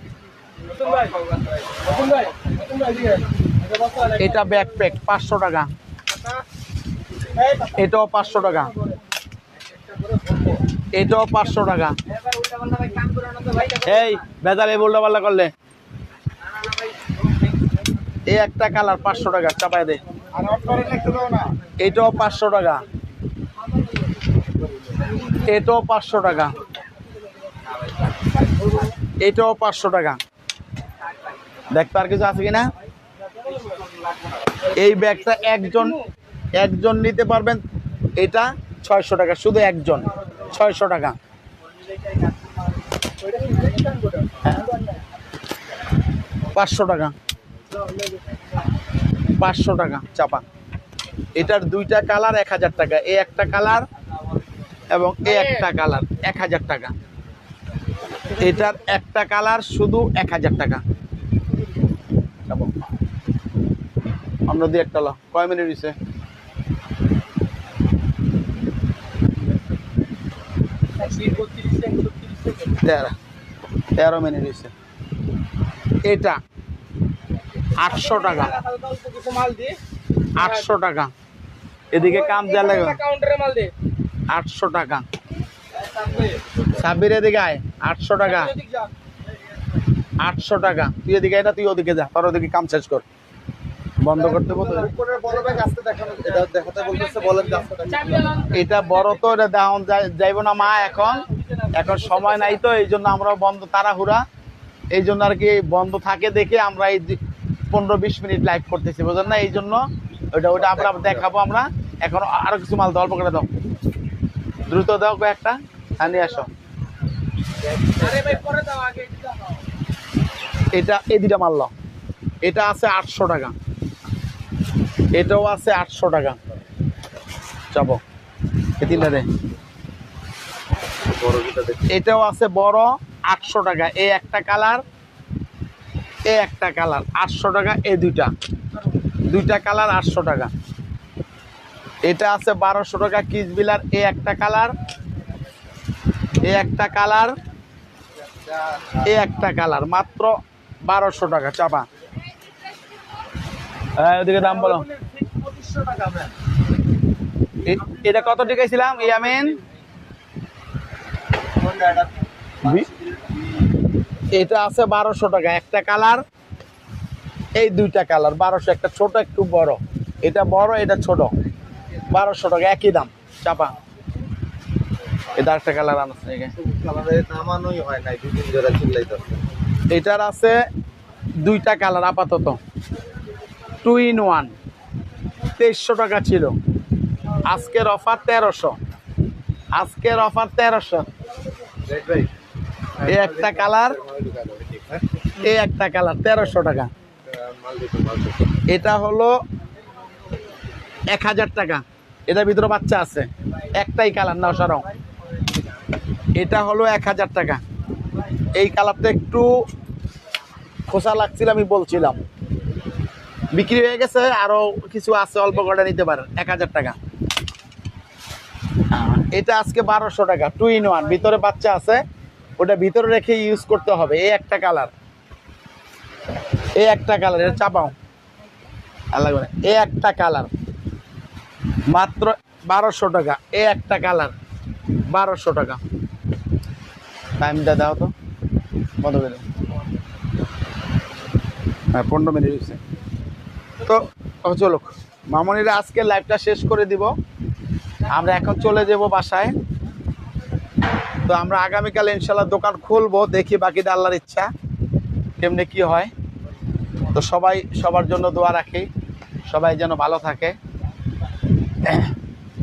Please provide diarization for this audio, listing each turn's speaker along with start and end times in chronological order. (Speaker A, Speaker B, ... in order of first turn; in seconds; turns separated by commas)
Speaker A: 0.8-1.1, Speaker A: 1.9-3.2, Speaker B: 4.1-5.7, Speaker B: 7.7-8.7, Speaker B: 10.9-12.0, Speaker A: 12.2-13.9, Speaker B: 13.8-15.5, Speaker B: 18.3-20.0, Speaker A: 20.6-21.3, Speaker B: 21.3-22.9, Speaker B: 25.2-26.6, Speaker B: 29.2-30.2, Speaker B: 31.7-32.7, Speaker B: 34.7-36.0, Speaker A: 35.8-36.0, Speaker B: 36.6-37.6, Speaker B: 38.2-41.2, Speaker A: 43.2-44.9, Speaker B: 44.4-44.7, Speaker B: 46.5-47.1, Speaker B: 49.4-50.4, Speaker B: 51.4-53.9, Speaker B: 54.9-56.9, Speaker A: 55.3-55.7, Speaker B: 58.3-60.8, Speaker B: 62.5-62.9, Speaker B: 64.5-66.0, Speaker A: 71.0-72.8, Speaker B: 72.8-73.2, Speaker B: 74.0-74.7, Speaker B: 76.0-76.4, Speaker B: 77.8-78.6, Speaker A: 77.8-79.8, Speaker B: 80.3-81.1, Speaker B: 81.9-83.0, Speaker A: 82.0-83.7, Speaker B: 84.3-85.0, Speaker B: 86.7-88.5, Speaker A: 88.3-88.9, Speaker B: 90.2-93.0, Speaker B: 94.0-94.9, Speaker C: 94.3-98.4, Speaker A: 96.9-98.5, Speaker B: 98.5-104.2, Speaker B: 104.9-107.2, Speaker B: 107.7-113.5, Speaker B: 114.7-116.5, Speaker A: 118.0-119.5, Speaker B: 120.7-121.7, Speaker B: 122.4-123.5, Speaker B: 125.1-126.4, Speaker B: 127.7-128.0, Speaker B: 128.8-129.3, Speaker C: 131.0-131.9, Speaker B: 131.9-134.8, Speaker B: 136.3-138.3, Speaker B: 139.3-140.5, Speaker B: 142.1-144.8, Speaker B: 146.4-147.3, Speaker B: 149.0-151.9, Speaker B: 154.0-154.9, Speaker A: 154.9-156.2, Speaker B: 157.7-159.6, Speaker C: 161.8-162.1, Speaker B: 162.6-162.9, Speaker B: 164.3-166.2, Speaker B: 167.6-171.3, Speaker B: 172.1-173.7, Speaker B: 175.4-176.5, Speaker C: 176.6-179.4, Speaker B: 179.9-180.6, Speaker B: 181.4-182.6, Speaker B: 183.8-184.5, Speaker B: 185.6-186.6, Speaker B: 187.4-188.8, Speaker B: 189.8-191.1, Speaker C: 191.9-192.3, Speaker B: 193.0-194.0, Speaker C: 193.1-195.0, Speaker B: 195.4-196.9, Speaker C: 197.3-198.6, Speaker B: 198.7-199.3, Speaker B: 201.1-204.9, Speaker B: 206.4-207.6, Speaker B: 208.6-209.5, Speaker B: 210.9-212.2, Speaker B: 213.5-217.0, Speaker B: 218.9-222.0, Speaker B: 222.6-224.9, Speaker B: 226.8-227.9, Speaker B: 229.1-230.5, Speaker B: 231.9-234.3, Speaker B: 235.1-235.8, Speaker B: 237.4-238.1, Speaker B: 239.0-239.4, Speaker B: 241.9-242.8, Speaker B: 243.8-247.1, Speaker B: 248.1-249.6, Speaker B: 251.3-254.5, Speaker B: 255.4-256.1, Speaker B: 257.1-258.9, Speaker B: 259.5-260.6, Speaker B: 261.9-262.1